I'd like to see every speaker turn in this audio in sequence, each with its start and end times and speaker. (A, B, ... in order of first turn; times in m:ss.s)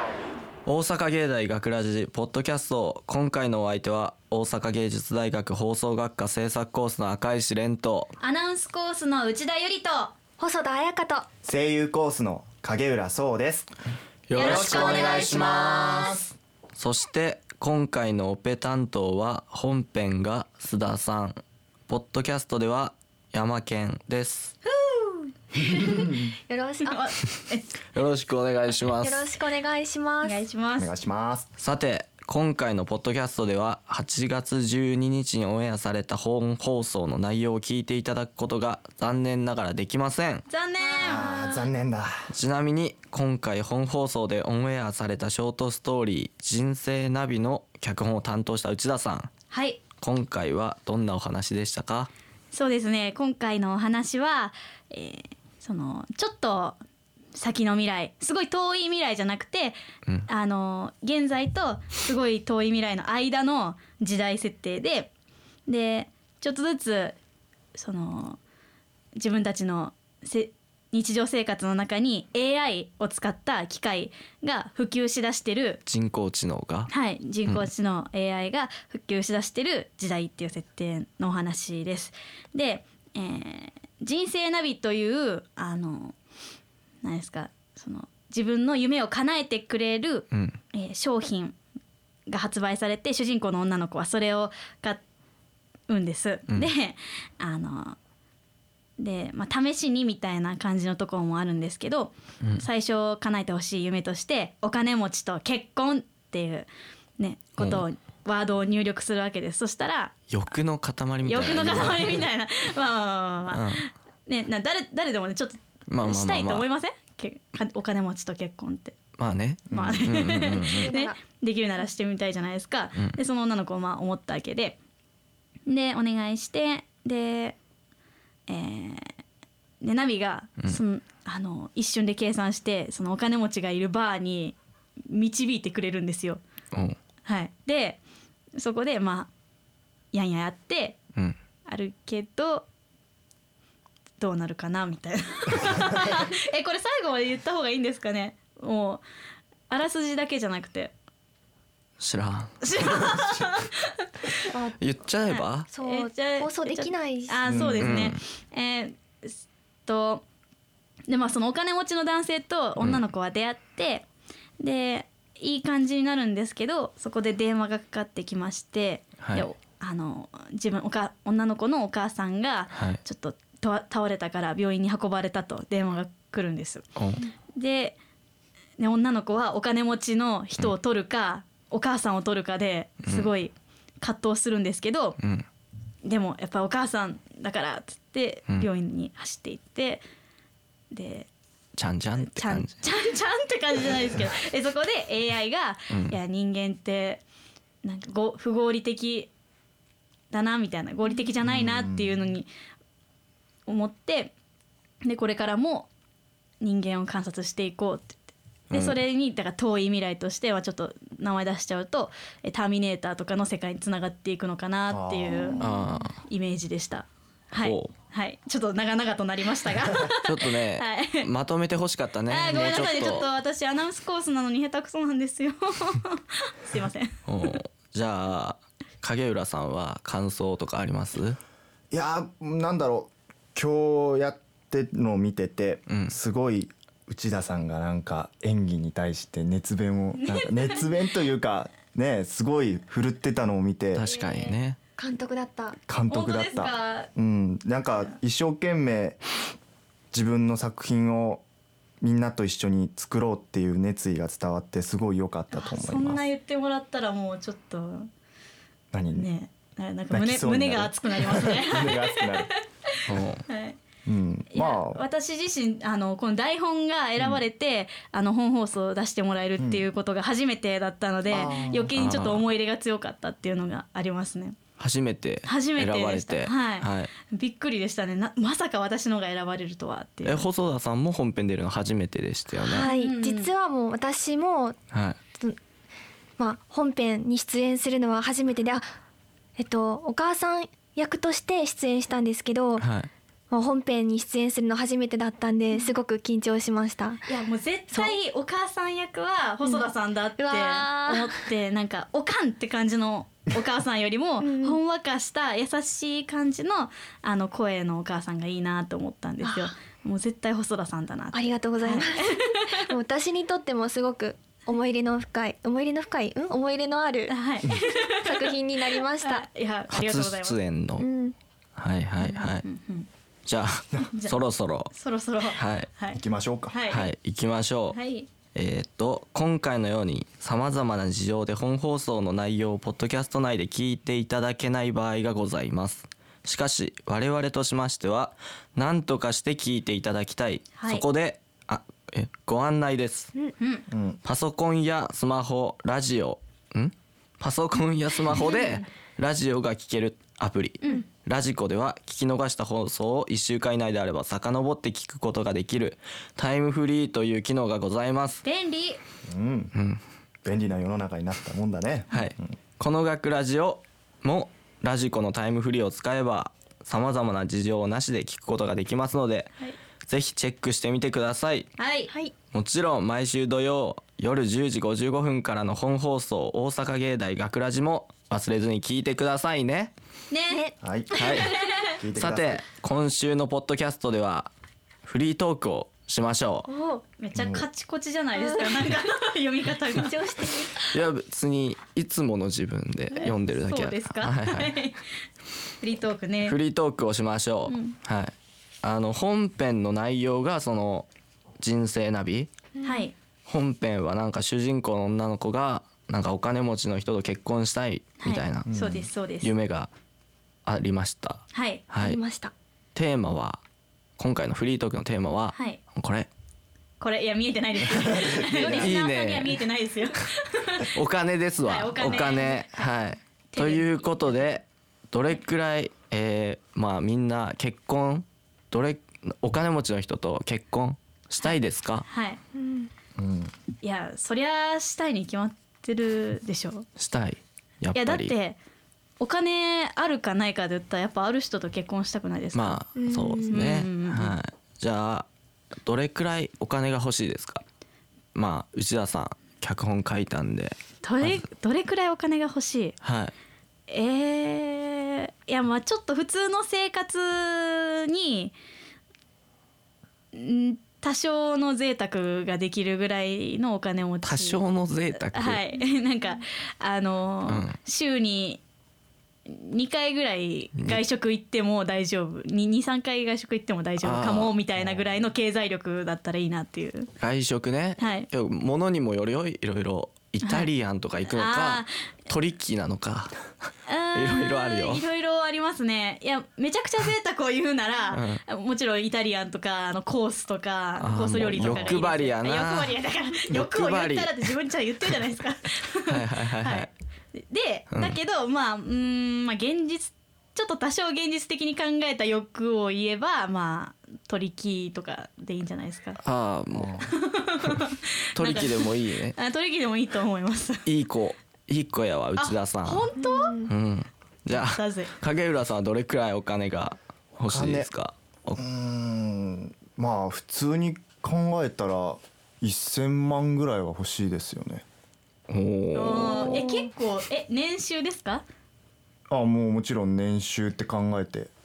0:00.6-0:08.1 A
0:08.2-0:10.1 B
0:10.4-0:11.3 C
0:11.4-0:13.7 D
0:14.3-0:16.2 A
0:14.3-0:15.9 B
0:14.3-0:16.3 D
0:16.7-0:24.5 A
0:24.6-0:26.1 B
0:25.8-0:26.3 D
0:26.5-0:27.1 C
0:26.8-0:27.7 B
0:27.9-0:29.2 A
0:29.0-0:30.4 C
0:30.2-0:30.9 B
0:30.8-0:31.5 D
0:31.6-0:40.4 A
0:40.5-0:41.7 B
0:40.8-0:42.2 D
0:42.3-0:49.3 A
0:49.5-0:49.8 B
0:50.0-0:52.1 A
0:52.5-0:56.8 B
0:57.3-0:59.8 B
1:00.3-1:05.1 B
1:05.7-1:07.2 B
1:07.7-1:08.4 B
1:09.2-1:15.8 B
1:15.8-1:16.9 A
1:16.9-1:26.2 B
1:27.0-1:31.6 B
1:30.3-1:30.6 A
1:32.3-1:35.0 B
1:35.9-1:38.0 B
1:39.0-1:50.1 B
1:47.6-1:47.8 A
1:50.3-1:52.2 A
1:51.2-1:59.0 B
1:53.5-1:53.8 A
1:55.9-1:56.6 A
1:59.2-2:00.9 A
1:59.7-2:00.1 D
1:59.7-2:04.8 B
2:00.6-2:01.2 C
2:05.6-2:07.6 B
2:08.5-2:09.2 B
2:09.8-2:14.6 B
2:15.1-2:16.4 B
2:16.7-2:17.0 A
2:17.2-2:18.0 B
2:18.6-2:19.3 B
2:20.1-2:21.0 B
2:21.6-2:22.7 B
2:24.2-2:29.0 B
2:29.7-2:30.9 B
2:32.0-2:32.6 A
2:32.6-2:34.5 B
2:34.5-2:34.8 C
2:34.8-2:35.7 A
2:35.3-2:40.2 B
2:35.7-2:37.7 C
2:37.4-2:37.9 D
2:37.8-2:38.2 A
2:41.1-2:44.0 B
2:44.6-2:56.9 B
2:49.2-2:49.5 A
2:52.7-2:53.0 A
2:57.0-2:57.2 A
2:57.5-2:58.0 B
2:58.8-3:05.2 B
3:03.0-3:03.3 A
3:05.2-3:05.4 A
3:06.0-3:10.0 B
3:10.9-3:11.3 B
3:11.8-3:12.7 A
3:12.2-3:17.2 B
3:15.9-3:16.2 A
3:17.8-3:19.3 B
3:20.3-3:22.5 B
3:21.4-3:22.1 D
3:23.6-3:24.3 B
3:25.0-3:25.9 B
3:26.6-3:28.2 B
3:28.7-3:29.0 A
3:28.7-3:35.7 B
3:34.9-3:35.7 D
3:35.6-3:36.2 A
3:36.2-3:41.3 B
3:37.6-3:37.9 A
3:40.2-3:43.3 A
3:42.3-3:47.2 B
3:47.3-3:51.4 A
3:51.9-4:04.0 D
3:55.9-3:56.2 A
4:00.2-4:01.0 B
4:03.9-4:04.8 A
4:04.0-4:04.6 B
4:05.0-4:05.8 C
4:05.8-4:09.2 D
4:06.1-4:07.1 B
4:10.1-4:11.4 D
4:12.0-4:16.2 D
4:15.5-4:18.1 B
4:18.9-4:19.3 D
4:19.1-4:23.8 B
4:20.1-4:22.5 D
4:23.1-4:23.4 A
4:24.0-4:25.0 D
4:24.5-4:34.6 B
4:29.6-4:29.8 D
4:31.3-4:31.9 D
4:31.9-4:32.4 A
4:34.8-4:37.1 A
4:35.4-4:40.5 B
4:40.2-4:42.9 A
4:42.6-4:44.8 C
4:42.7-4:43.5 B
4:44.9-4:45.2 A
4:46.4-4:48.8 C
4:49.6-4:52.9 C
4:52.8-4:53.1 A
4:53.5-4:57.3 C
4:57.3-5:12.8 B
4:59.6-5:01.4 C
5:04.4-5:04.8 C
5:09.4-5:09.7 C
5:11.3-5:17.3 C
5:17.3-5:20.6 B
5:18.2-5:19.5 C
5:19.9-5:21.0 A
5:21.0-5:21.4 C
5:21.8-5:22.6 A
5:22.2-5:23.1 B
5:23.4-5:24.9 A
5:24.1-5:24.4 B
5:24.9-5:27.1 B
5:25.5-5:25.9 A
5:26.1-5:26.8 D
5:26.9-5:28.0 A
5:27.9-5:28.3 B
5:28.5-5:43.3 A
5:40.7-5:41.0 B
5:43.6-5:43.8 B
5:43.9-5:44.2 D
5:44.2-5:58.4 A
5:58.4-5:59.0 B
5:59.2-5:59.8 D
5:59.7-6:00.0 A
6:00.4-6:02.5 D
6:02.1-6:09.5 A
6:10.0-6:11.7 A
6:11.8-6:12.1 B
6:12.5-6:19.9 A
6:20.3-6:20.7 B
6:20.5-6:21.4 C
6:20.8-6:22.6 D
6:21.1-6:21.5 A
6:21.3-6:21.9 B
6:22.1-6:24.5 A
6:25.0-6:26.7 A
6:26.7-6:27.0 C
6:27.2-6:30.2 B
6:27.4-6:27.7 D
6:28.4-6:29.0 C
6:30.0-6:30.9 C
6:30.9-6:34.8 A
6:33.2-6:35.0 B
6:35.8-6:36.6 B
6:36.4-6:41.1 A
6:37.7-6:38.0 B
6:41.6-6:42.5 A
6:42.8-6:43.1 C
6:42.8-6:43.1 B
6:43.4-6:48.7 A
6:48.2-6:49.5 B
6:48.6-6:49.1 D
6:49.4-6:49.9 A
6:50.6-6:52.2 A
6:51.5-6:51.8 B
6:52.0-6:52.5 C
6:52.9-6:53.6 A
6:54.2-6:56.3 A
6:55.5-6:55.8 B
6:57.0-7:00.9 B
6:57.8-6:58.9 D
6:58.6-6:59.6 A
7:00.9-7:12.1 A
7:01.6-7:02.9 B
7:03.5-7:04.6 B
7:12.1-7:12.4 B
7:12.5-7:12.9 C
7:13.2-7:13.5 D
7:13.8-7:16.8 B
7:17.0-7:18.3 A
7:17.9-7:18.6 B
7:19.2-7:22.8 B
7:22.5-7:25.3 A
7:23.0-7:23.6 C
7:23.4-7:24.4 B
7:25.8-7:27.6 A
7:28.3-7:31.4 A
7:31.0-7:32.9 B
7:33.0-7:33.3 A
7:33.9-7:38.6 B
7:40.3-7:44.6 B
7:44.2-7:45.6 A
7:45.2-7:48.6 B
7:47.4-7:47.8 A
7:49.4-7:57.1 B
7:50.8-7:51.0 A
7:54.0-7:54.6 A
7:54.8-7:55.2 D
7:57.2-8:03.4 A
7:58.0-7:58.3 B
8:00.4-8:00.7 B
8:01.3-8:01.9 B
8:03.8-8:26.2 B
8:04.1-8:05.0 A
8:08.1-8:08.4 A
8:11.0-8:14.5 A
8:11.6-8:12.0 D
8:16.0-8:16.9 A
8:17.9-8:18.2 A
8:26.2-8:26.9 A
8:26.7-8:27.2 D
8:27.0-8:30.8 B
8:28.3-8:29.4 A
8:30.8-8:33.1 A
8:32.4-8:33.6 B
8:33.2-8:33.7 C
8:33.6-8:38.6 A
8:34.5-8:35.1 B
8:37.5-8:37.9 D
8:38.6-8:44.8 D
8:45.5-8:46.7 A
8:45.9-8:48.4 B
8:46.5-8:46.9 C
8:49.3-8:51.5 D